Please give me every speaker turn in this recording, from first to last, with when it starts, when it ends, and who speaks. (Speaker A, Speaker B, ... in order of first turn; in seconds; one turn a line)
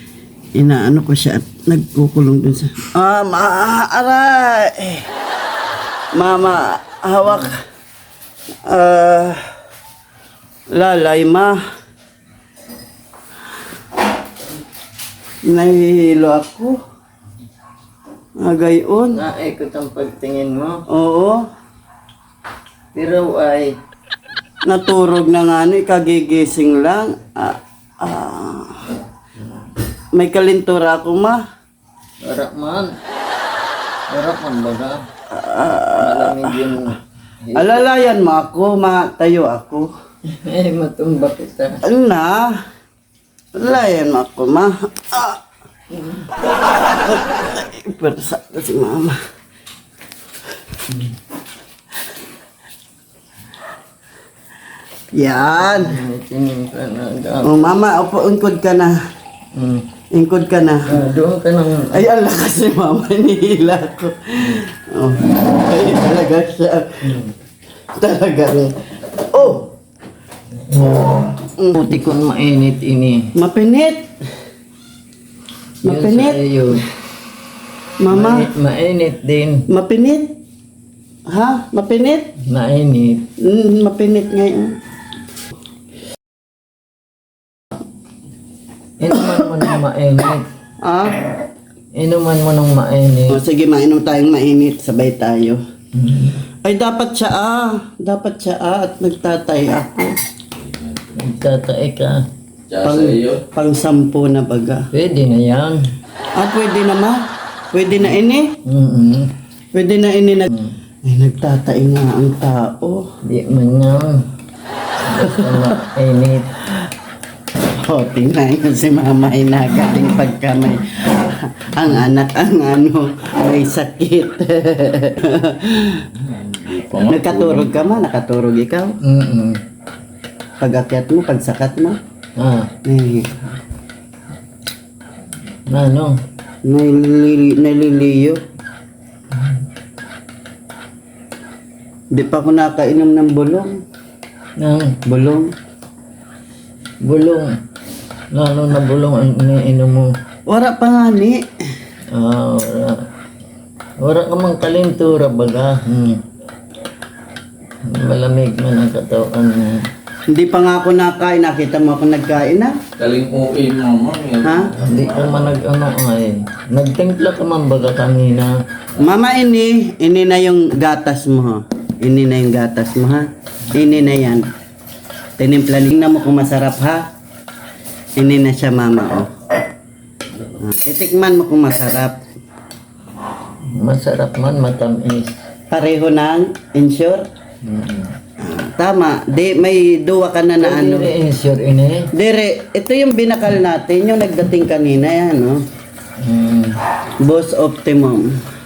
Speaker A: 0.5-5.1
Speaker A: 6.1-7.6
Speaker A: 8.7-9.4
Speaker A: 10.7-11.6
Speaker A: 15.5-16.8
Speaker A: 18.4-19.2
Speaker B: 19.1-20.8
Speaker A: 20.9-21.5
Speaker B: 22.9-23.7
Speaker A: 24.6-28.8
Speaker A: 30.1-31.4
Speaker B: 32.2-32.9
Speaker B: 34.1-35.0
Speaker A: 35.3-36.6
Speaker B: 36.0-37.8
Speaker A: 37.5-39.9
Speaker B: 40.3-41.8
Speaker A: 41.8-42.5
Speaker A: 43.5-45.4
Speaker A: 46.6-49.2
Speaker A: 55.1-56.0
Speaker B: 55.6-57.7
Speaker A: 57.4-59.0
Speaker B: 59.5-59.9
Speaker A: 60.1-60.9
Speaker B: 60.9-62.0
Speaker A: 61.9-67.0
Speaker B: 67.0-67.3
Speaker A: 68.0-69.7
Speaker A: 71.6-72.2
Speaker B: 71.9-73.3
Speaker A: 73.3-74.1
Speaker A: 75.8-76.4
Speaker B: 75.8-76.8
Speaker A: 78.0-78.4
Speaker B: 78.1-79.7
Speaker A: 79.7-80.3
Speaker A: 81.3-82.3
Speaker B: 82.5-83.2
Speaker A: 83.4-84.8
Speaker B: 89.0-90.4
Speaker A: 90.8-91.2
Speaker B: 92.0-93.4
Speaker A: 93.3-95.6
Speaker B: 96.0-96.3
Speaker A: 96.6-100.2
Speaker C: 100.7-101.0
Speaker B: 101.1-102.2
Speaker C: 102.7-103.5
Speaker A: 102.8-104.8
Speaker B: 104.9-105.8
Speaker A: 106.3-107.2
Speaker A: 107.7-108.6
Speaker B: 108.7-109.3
Speaker A: 109.7-110.5
Speaker A: 111.0-113.1
Speaker B: 113.3-114.2
Speaker B: 115.0-116.5
Speaker A: 115.2-115.7
Speaker A: 117.8-126.1
Speaker C: 126.3-127.7
Speaker A: 127.0-128.9
Speaker B: 129.0-129.6
Speaker A: 130.6-132.0
Speaker B: 132.4-132.7
Speaker A: 132.8-133.5
Speaker B: 135.7-136.1
Speaker A: 136.6-138.4
Speaker A: 142.1-143.8
Speaker B: 144.6-144.9
Speaker A: 145.0-145.5
Speaker B: 147.0-147.5
Speaker B: 148.3-150.1
Speaker A: 150.5-151.4
Speaker B: 152.1-153.0
Speaker B: 154.0-156.2
Speaker B: 157.9-159.8
Speaker A: 160.3-162.7
Speaker C: 163.0-165.4
Speaker A: 164.4-164.7
Speaker B: 164.8-168.5
Speaker A: 168.9-174.5
Speaker A: 175.4-177.1
Speaker A: 178.2-179.3
Speaker A: 180.6-182.2
Speaker B: 183.7-185.3
Speaker A: 185.7-187.2
Speaker B: 187.6-188.1
Speaker A: 188.4-191.1
Speaker B: 190.6-192.1
Speaker A: 192.1-195.6
Speaker B: 196.2-196.8
Speaker A: 197.2-198.3